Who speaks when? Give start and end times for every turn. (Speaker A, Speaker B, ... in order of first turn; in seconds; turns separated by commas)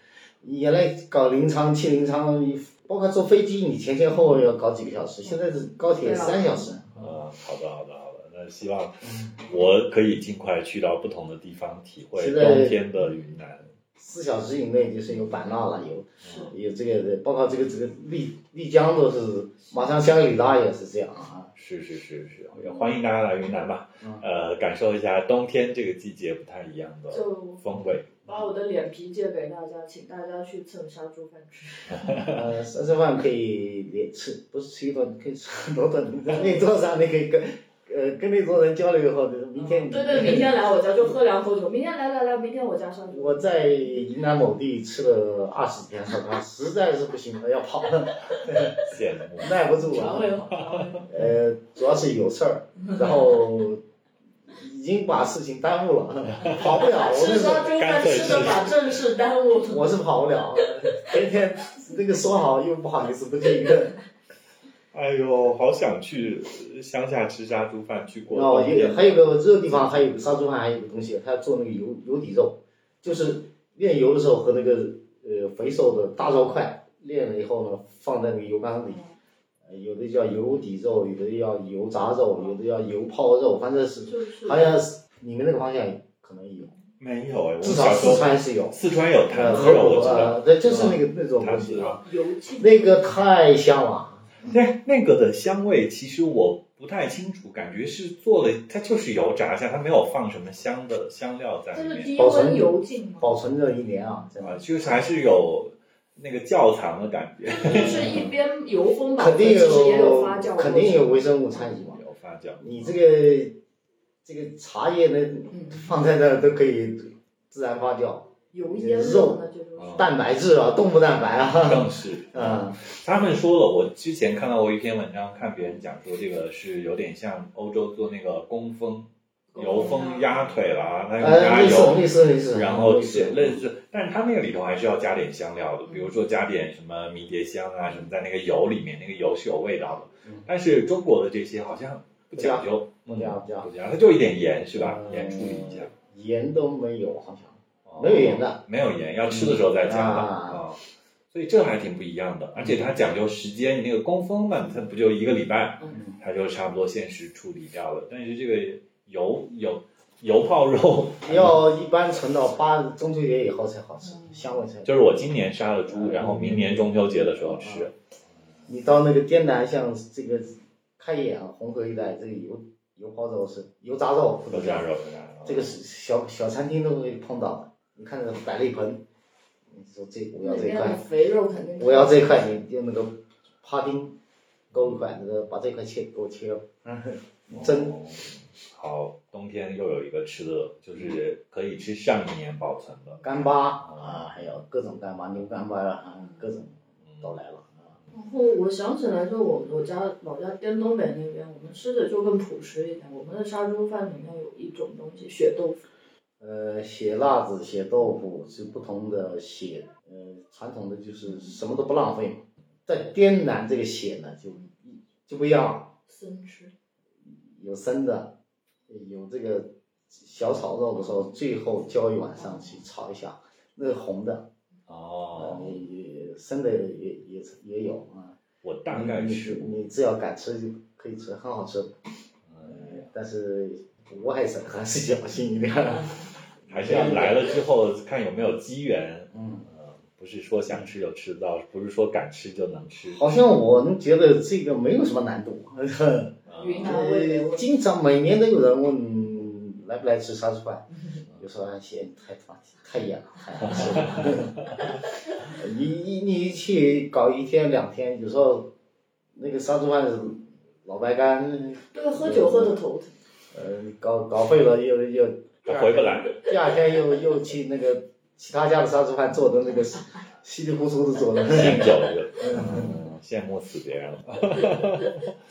Speaker A: 0.4-7.0, Speaker B: 5.2-6.8, Speaker C: 6.9-13.7, Speaker A: 12.2-12.8, Speaker A: 13.9-21.5, Speaker C: 16.2-16.5, Speaker B: 16.2-16.5, Speaker C: 21.5-28.1, Speaker A: 22.5-23.0, Speaker B: 27.1-27.6, Speaker B: 28.2-32.3, Speaker C: 31.9-32.4, Speaker A: 32.2-41.1, Speaker B: 39.6-44.0, Speaker A: 43.1-50.4, Speaker C: 48.8-49.5, Speaker B: 49.6-51.3, Speaker C: 50.5-51.0, Speaker A: 51.1-53.8, Speaker A: 54.5-58.7, Speaker C: 56.4-56.9, Speaker B: 56.6-60.0, Speaker C: 57.6-58.8, Speaker A: 59.6-64.0, Speaker B: 60.6-61.0, Speaker C: 64.9-70.2, Speaker A: 68.3-79.0, Speaker A: 79.6-86.7, Speaker B: 84.0-84.8, Speaker C: 87.0-92.0, Speaker A: 87.6-88.8, Speaker A: 89.3-94.4, Speaker B: 92.0-93.2, Speaker C: 94.4-102.2, Speaker B: 101.7-103.3, Speaker A: 102.2-104.6, Speaker C: 104.4-108.2, Speaker B: 107.4-111.2, Speaker A: 107.7-108.3, Speaker A: 109.2-112.0, Speaker C: 111.6-112.7, Speaker A: 112.6-113.6, Speaker A: 114.2-122.8, Speaker B: 115.5-115.9, Speaker B: 118.5-120.1, Speaker C: 119.8-120.1, Speaker C: 121.6-145.9, Speaker B: 129.5-130.4, Speaker A: 131.2-133.6, Speaker B: 135.8-136.1, Speaker A: 142.3-143.7, Speaker A: 144.8-148.6, Speaker C: 147.8-161.6, Speaker A: 149.2-150.6, Speaker A: 152.5-152.9, Speaker A: 155.9-156.2, Speaker A: 161.2-165.2, Speaker B: 164.0-164.4, Speaker C: 164.8-167.9, Speaker A: 165.9-167.9, Speaker A: 168.7-174.9, Speaker C: 174.5-175.7, Speaker A: 175.4-179.0, Speaker A: 179.7-181.0, Speaker B: 180.4-182.6, Speaker A: 181.8-184.2, Speaker A: 184.7-187.9, Speaker C: 184.7-185.0, Speaker C: 187.5-194.3, Speaker A: 193.2-198.0, Speaker C: 197.1-197.4, Speaker B: 198.1-205.8, Speaker A: 206.4-215.9, Speaker B: 216.1-216.7, Speaker A: 217.2-218.4, Speaker A: 218.9-224.5, Speaker C: 224.9-225.8, Speaker A: 225.3-228.4, Speaker C: 228.6-229.8, Speaker A: 228.9-232.0, Speaker C: 232.5-233.1, Speaker A: 232.6-237.5, Speaker B: 235.8-236.3, Speaker C: 236.7-243.2, Speaker A: 239.3-239.7, Speaker A: 243.1-254.5, Speaker C: 246.5-246.9, Speaker B: 246.6-247.7, Speaker C: 253.7-254.3, Speaker A: 255.4-258.7, Speaker A: 259.3-262.8, Speaker B: 261.9-263.2, Speaker A: 263.5-272.9, Speaker C: 265.6-266.5, Speaker C: 271.4-275.4, Speaker B: 272.5-273.0